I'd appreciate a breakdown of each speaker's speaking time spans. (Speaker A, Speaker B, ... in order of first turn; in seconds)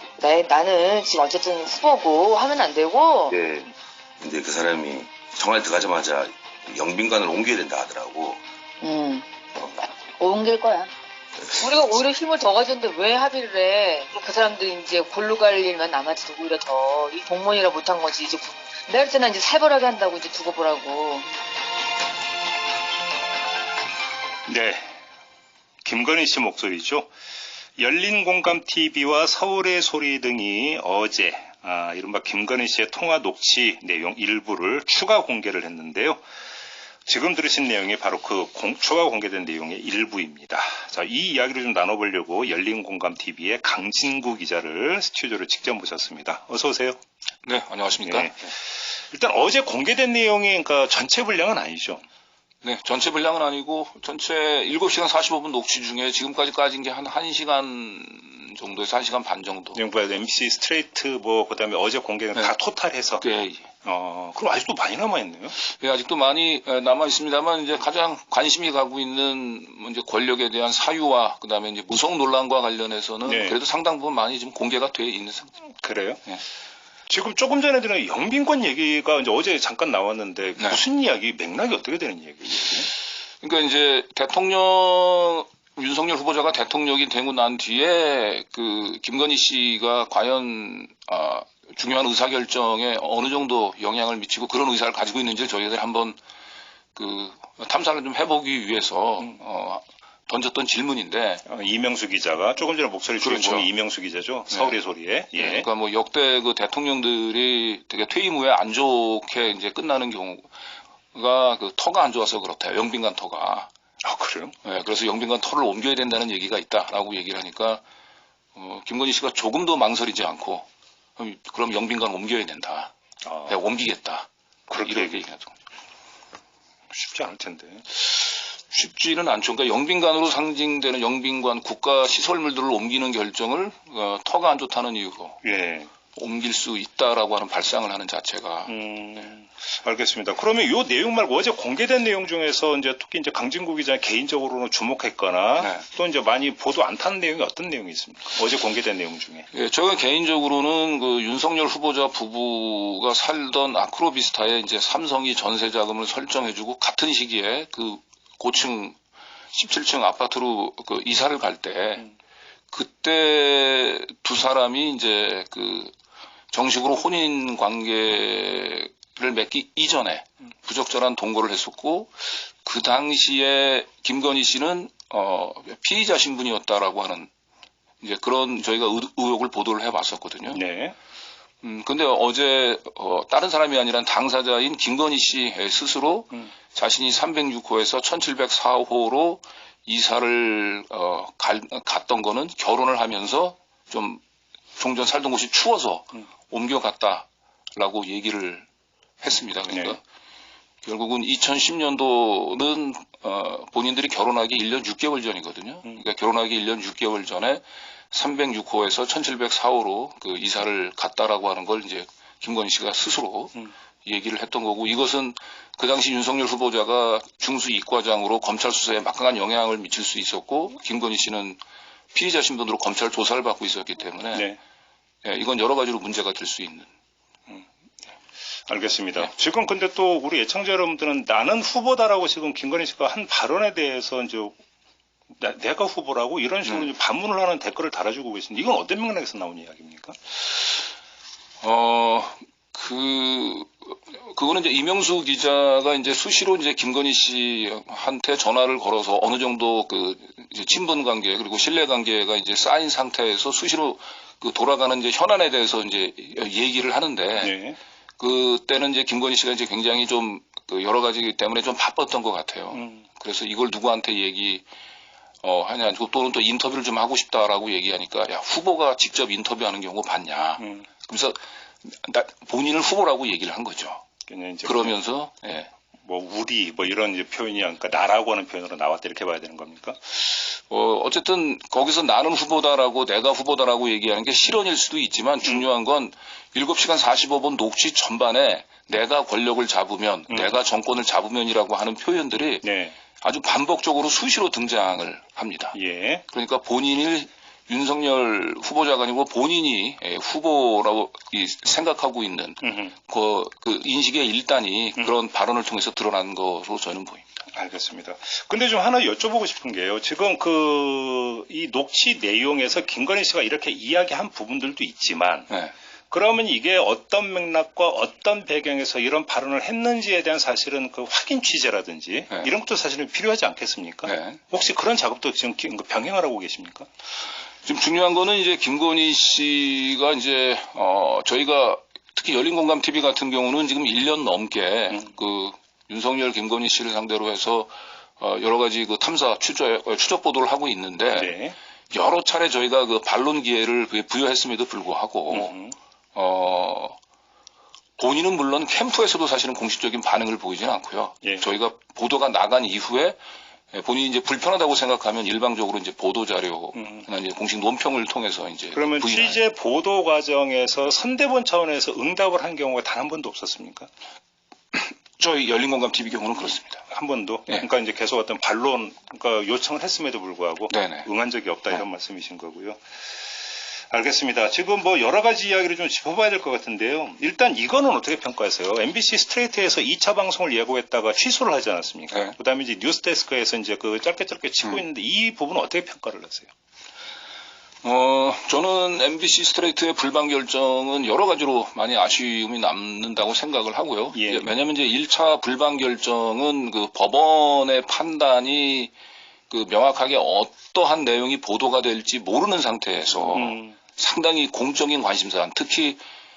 Speaker A: 0.2-3.4, 8.8-10.9, 11.5-21.2
Speaker B: 4.2-8.4
Speaker C: 24.5-24.9, 25.8-27.1, 27.8-36.2, 37.0-47.0, 48.0-48.5, 49.1-52.0, 59.7-63.2, 63.8-65.5, 73.2-73.6, 75.8-76.3, 77.1-82.9, 101.5-105.7, 114.0-114.5, 123.2-123.6, 124.7-125.2, 126.9-127.8, 135.4-135.9, 138.7-149.5, 180.5-180.9, 199.7-200.0, 224.3-224.6, 228.7-234.6, 235.3-240.1, 257.4-257.8, 262.7-263.0, 270.6-270.9, 274.3-275.0, 276.0-280.0, 290.3-290.6, 292.6-292.9, 295.7-296.2, 302.6-302.9, 307.5-315.6, 316.1-326.9, 341.1-341.5, 345.3-345.7, 356.7-357.1, 358.7-363.9, 366.9-372.8, 373.9-386.5, 394.1-394.4, 403.3-403.8
Speaker D: 47.4-48.5, 52.6-59.8, 63.2-63.7, 65.6-75.5, 83.4-96.2, 96.9-101.4, 103.2-103.7, 104.5-104.8, 105.3-110.5, 111.1-113.7, 114.6-117.8, 118.5-120.7, 121.2-122.9, 123.5-125.5, 128.0-135.4, 136.1-139.3, 145.6-145.8, 149.5-159.0, 159.5-162.1, 162.7-165.9, 166.5-177.3, 178.0-180.6, 181.6-194.2, 194.8-198.7, 199.2-200.0, 200.8-221.6, 222.1-224.5, 225.2-226.9, 241.6-257.6, 258.2-264.6, 265.4-274.0, 274.6-275.7, 280.3-295.8, 296.3-307.4, 324.0-324.4, 327.6-341.4, 341.9-345.5, 346.1-346.9, 348.0-353.2, 353.7-359.4, 364.7-366.8, 370.7-371.1, 387.8-398.9, 399.5-406.0